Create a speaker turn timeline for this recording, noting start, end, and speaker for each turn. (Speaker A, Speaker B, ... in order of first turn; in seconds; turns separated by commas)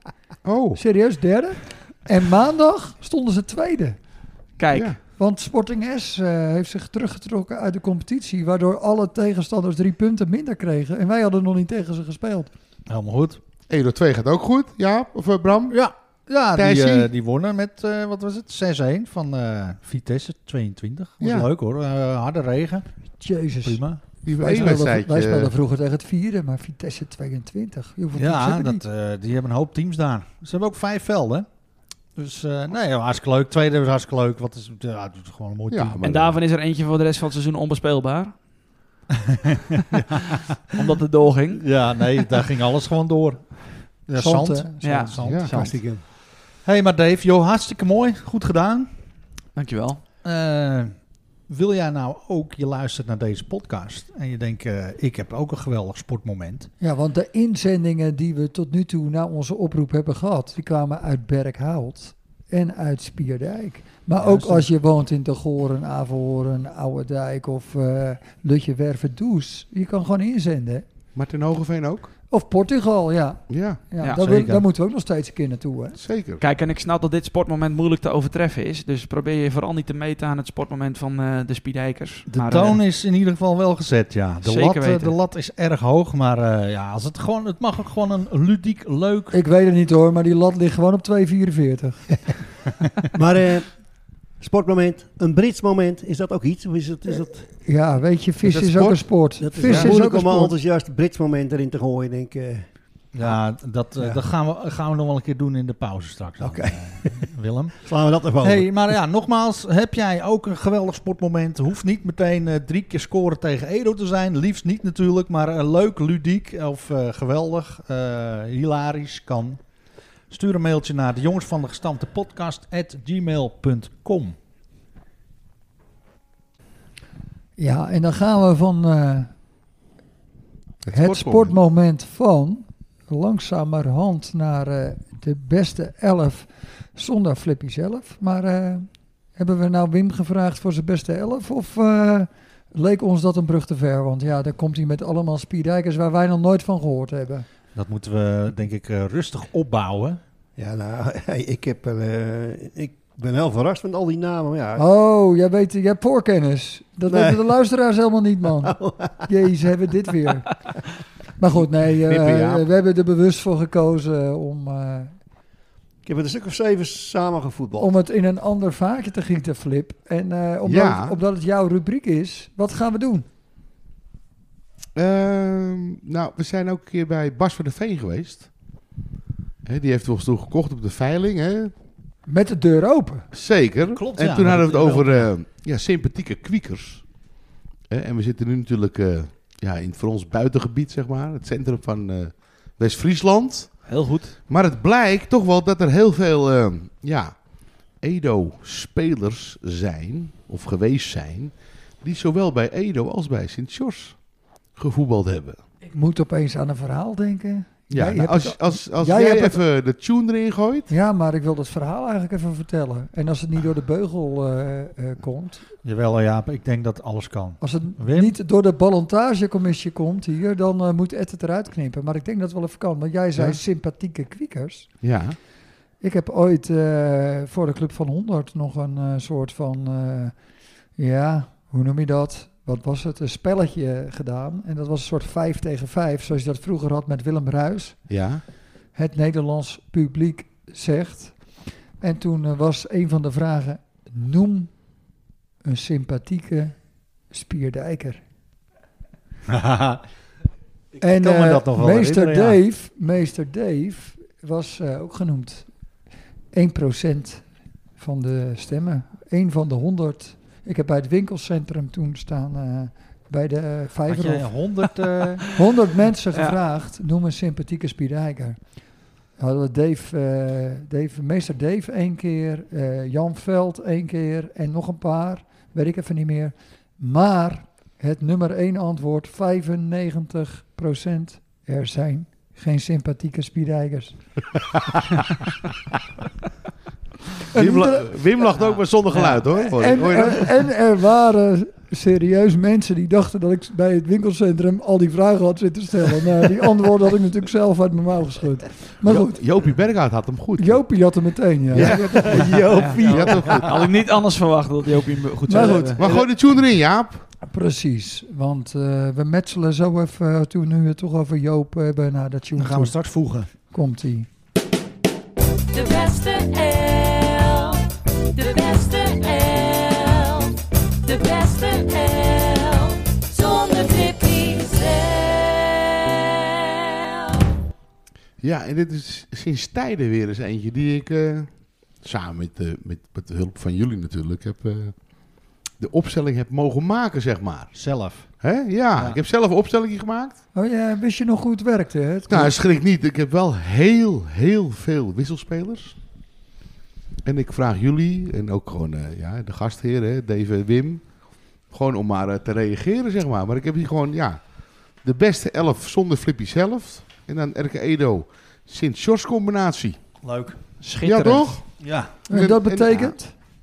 Speaker A: 0.4-0.8, Speaker B: 0.7-4.0, Speaker C: 4.6-5.0, Speaker A: 4.7-5.0, Speaker B: 5.2-12.5, Speaker D: 12.9-13.4, Speaker A: 13.7-15.8, Speaker D: 15.7-22.9, Speaker A: 16.5-17.1, Speaker A: 21.2-21.5, Speaker B: 23.2-28.8, Speaker D: 23.6-24.0, Speaker A: 24.2-25.5, Speaker D: 28.1-31.4, Speaker D: 32.1-36.0, Speaker A: 35.7-36.4, Speaker C: 36.0-38.4, Speaker D: 39.9-40.8, Speaker C: 40.8-41.8, Speaker D: 41.6-46.0, Speaker B: 44.1-45.0, Speaker C: 44.8-45.7, Speaker A: 45.2-45.5, Speaker E: 45.5-46.0, Speaker D: 46.6-48.9, Speaker C: 49.5-50.0, Speaker D: 50.2-50.9, Speaker D: 51.5-56.7, Speaker B: 56.8-70.8, Speaker D: 64.2-64.7, Speaker A: 71.1-72.1, Speaker B: 72.3-76.0, Speaker A: 73.5-73.8, Speaker D: 74.2-74.7, Speaker A: 76.0-76.4, Speaker C: 76.4-82.8, Speaker D: 82.3-89.4, Speaker C: 84.4-85.2, Speaker B: 89.3-92.3, Speaker E: 93.1-93.7, Speaker E: 94.4-97.5, Speaker B: 97.6-100.5, Speaker A: 98.4-99.0, Speaker E: 99.4-102.7, Speaker D: 103.1-119.6, Speaker E: 106.4-107.2, Speaker E: 107.8-108.8, Speaker D: 120.3-124.3, Speaker B: 127.6-129.3, Speaker A: 130.8-131.5, Speaker B: 130.9-147.4, Speaker D: 147.7-150.2, Speaker E: 150.6-154.8, Speaker B: 154.8-160.5, Speaker E: 157.1-157.4, Speaker E: 158.6-159.2, Speaker B: 161.4-165.2, Speaker A: 162.1-162.7, Speaker E: 166.0-167.9, Speaker B: 167.8-173.2, Speaker A: 170.7-171.2, Speaker A: 174.9-178.5, Speaker A: 179.6-181.7, Speaker B: 182.2-183.3, Speaker A: 183.3-187.1, Speaker D: 183.9-185.3, Speaker A: 187.9-205.6, Speaker C: 193.8-194.4, Speaker B: 205.9-209.6, Speaker A: 207.9-210.9, Speaker B: 210.9-215.7, Speaker D: 215.8-218.3, Speaker B: 217.6-225.0, Speaker A: 225.0-225.4, Speaker B: 226.0-230.4, Speaker B: 230.9-238.2, Speaker A: 238.1-238.4, Speaker B: 238.9-245.0, Speaker B: 245.6-246.8, Speaker B: 247.3-248.2, Speaker D: 249.5-250.0, Speaker D: 251.0-252.6, Speaker B: 251.0-255.7, Speaker B: 256.5-257.4, Speaker B: 258.0-264.6, Speaker D: 264.1-265.5, Speaker B: 265.5-268.6, Speaker B: 269.4-284.2, Speaker B: 287.5-288.2, Speaker A: 287.5-290.6, Speaker B: 289.2-299.4, Speaker A: 299.0-301.0, Speaker B: 300.6-301.9, Speaker E: 301.7-303.7, Speaker A: 301.7-303.9, Speaker C: 302.7-306.0, Speaker D: 303.1-303.5, Speaker B: 305.5-306.0, Speaker E: 305.5-306.2, Speaker A: 306.0-307.2, Speaker B: 307.4-314.3, Speaker D: 312.6-313.5, Speaker F: 315.7-327.4, Speaker A: 328.4-340.4, Speaker D: 337.7-338.4, Speaker D: 338.9-339.2, Speaker B: 340.5-342.6, Speaker A: 342.3-345.9, Speaker A: 347.2-360.0, Speaker D: 360.2-360.6, Speaker C: 360.8-361.6, Speaker A: 361.0-361.6, Speaker D: 361.8-362.1, Speaker A: 362.2-363.1, Speaker B: 362.3-363.3